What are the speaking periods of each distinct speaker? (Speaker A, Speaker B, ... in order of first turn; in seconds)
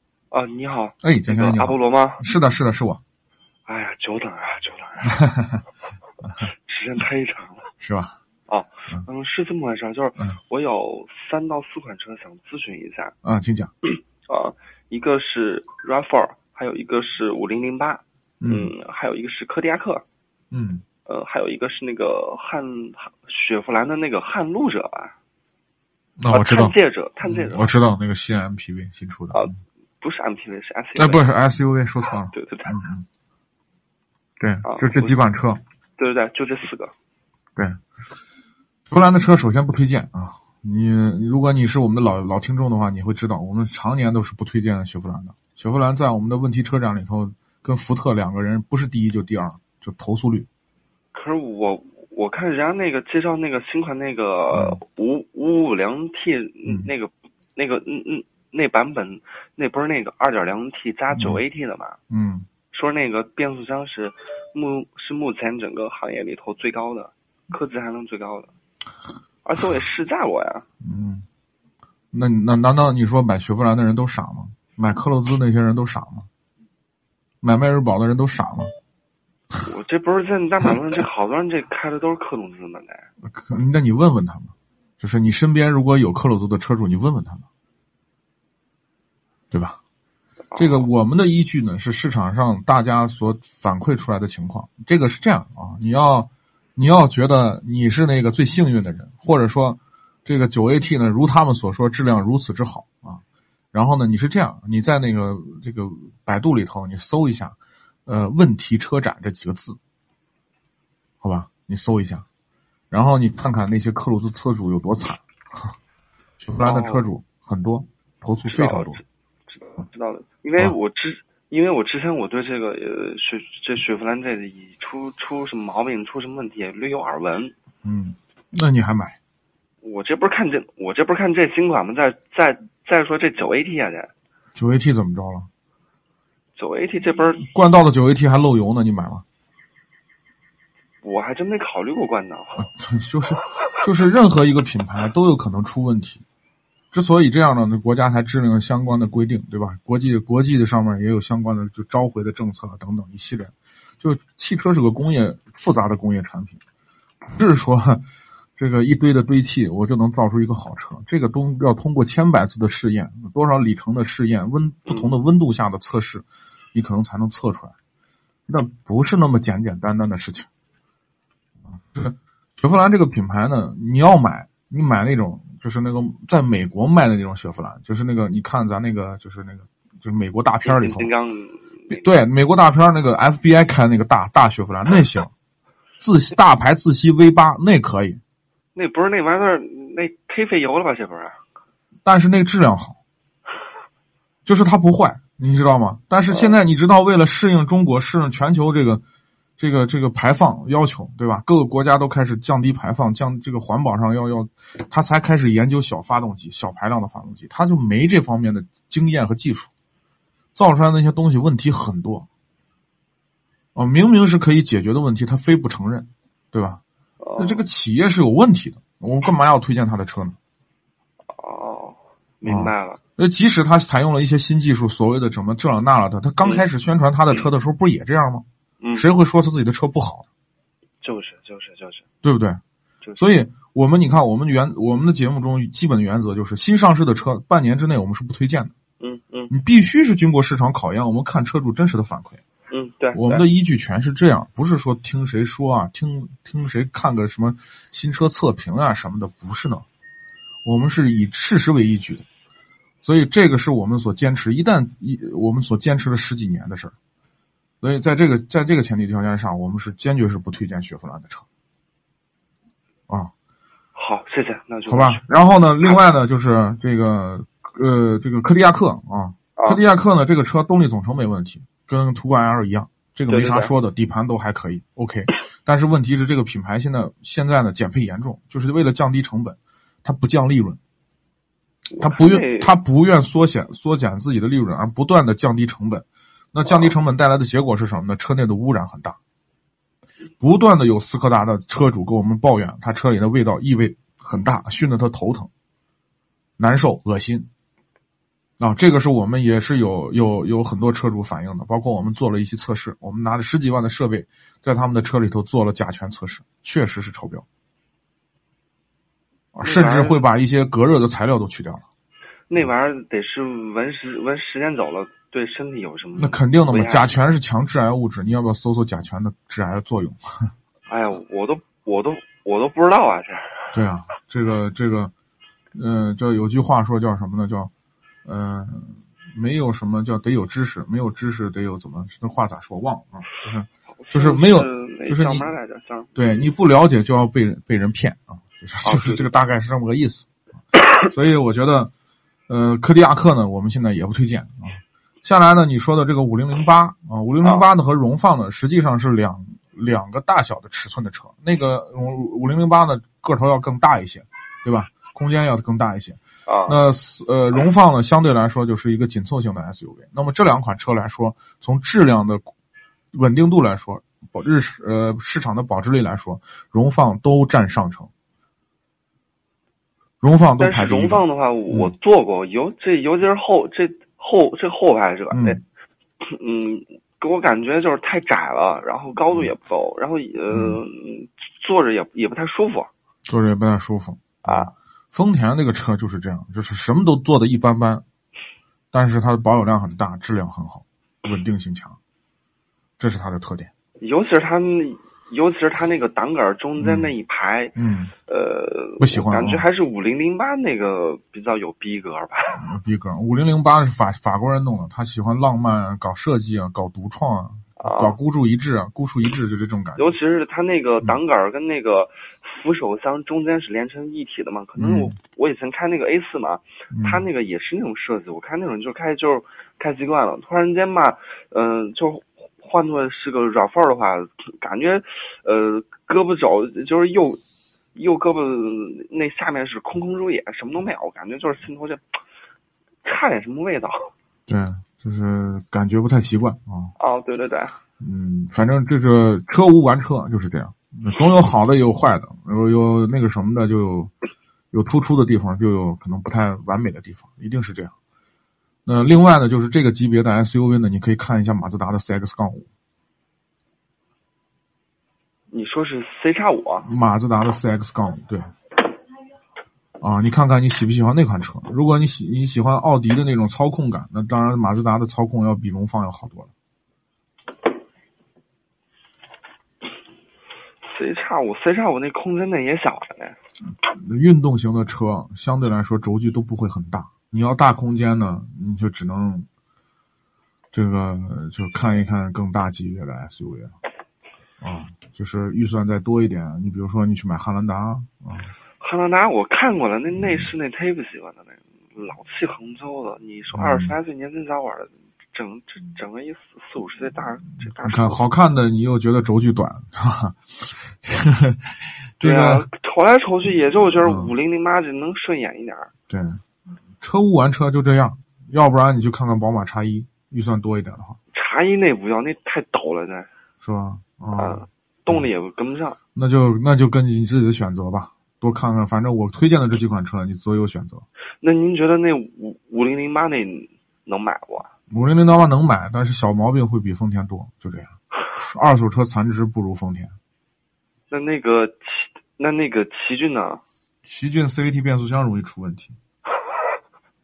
Speaker A: 0.3-2.2, 3.6-5.2, 6.4-7.7, 8.5-13.1, 13.9-20.0, 21.1-25.1, 26.3-27.8, 29.3-31.3, 32.3-32.8, 34.6-35.2, 36.0-36.9, 51.1-62.0, 62.7-68.5, 69.4-70.6, 79.6-83.1, 90.5-90.9, 116.6-117.0, 118.5-127.5, 129.8-134.1, 136.6-137.5, 141.0-142.7, 180.6-182.0, 188.7-191.4, 196.3-196.6, 217.2-217.7, 221.3-223.0, 226.4-226.7, 228.8-229.1, 231.0-232.0, 233.0-233.3, 239.0-239.5, 242.7-243.5, 263.9-265.3, 269.6-269.8, 273.3-273.7, 281.9-282.8, 286.6-286.9, 309.6-310.2, 312.5-317.2, 320.9-323.7, 333.9-336.1, 338.8-339.3, 356.4-356.8, 370.6-375.6, 376.2-382.9, 384.4-384.7, 394.0-397.7, 398.2-402.6, 407.8-408.2, 409.9-427.4, 427.9-432.1, 433.0-434.1, 437.0-437.8, 455.5-456.9, 470.8-473.4, 488.8-498.2, 502.2-505.9, 511.3-513.3, 514.4-516.0, 521.4-524.7, 531.1-533.6
Speaker B: 1.0-3.0, 5.1-5.6, 7.8-8.2, 13.2-13.7, 18.4-18.7, 20.5-20.8, 26.2-29.5, 30.9-33.0, 34.4-35.6, 38.9-50.5, 54.5-54.8, 56.6-56.9, 61.1-61.4, 62.1-62.5, 70.8-71.2, 72.1-76.3, 77.4-78.7, 83.2-87.4, 89.5-89.8, 90.5-103.2, 103.7-109.8, 111.2-112.2, 112.9-115.7, 116.4-119.0, 127.8-129.2, 134.5-135.5, 137.4-139.2, 142.6-146.2, 146.9-156.6, 157.3-158.0, 158.6-167.7, 168.5-170.5, 171.7-181.1, 181.9-185.3, 186.0-188.2, 192.0-193.0, 194.4-199.0, 199.6-209.7, 210.5-212.3, 213.7-216.8, 217.4-220.4, 222.4-230.3, 232.2-232.6, 233.2-238.7, 239.5-242.4, 243.1-249.8, 250.6-252.2, 253.0-256.9, 257.8-261.4, 264.9-280.8, 282.0-289.2, 290.4-295.5, 296.6-297.5, 298.6-307.4, 309.5-311.8, 316.1-320.5, 323.7-325.1, 325.7-327.7, 328.2-335.5, 336.1-340.3, 341.1-341.9, 342.5-362.5, 363.1-368.1, 370.2-371.9, 375.3-375.6, 380.5-380.8, 383.2-388.0, 388.9-392.0, 393.0-393.7, 396.8-397.1, 397.7-398.1, 399.0-399.7, 402.5-410.2, 414.8-415.2, 416.9-417.3, 434.5-436.9, 438.0-444.1, 444.7-447.9, 448.9-452.7, 456.8-458.5, 460.0-466.5, 473.8-479.5, 480.7-483.8, 484.6-488.5, 493.5-494.0, 497.8-502.6, 504.0-504.3, 506.1-506.4, 507.0-511.2, 513.6-515.3, 516.1-521.0, 524.9-530.1, 534.0-536.0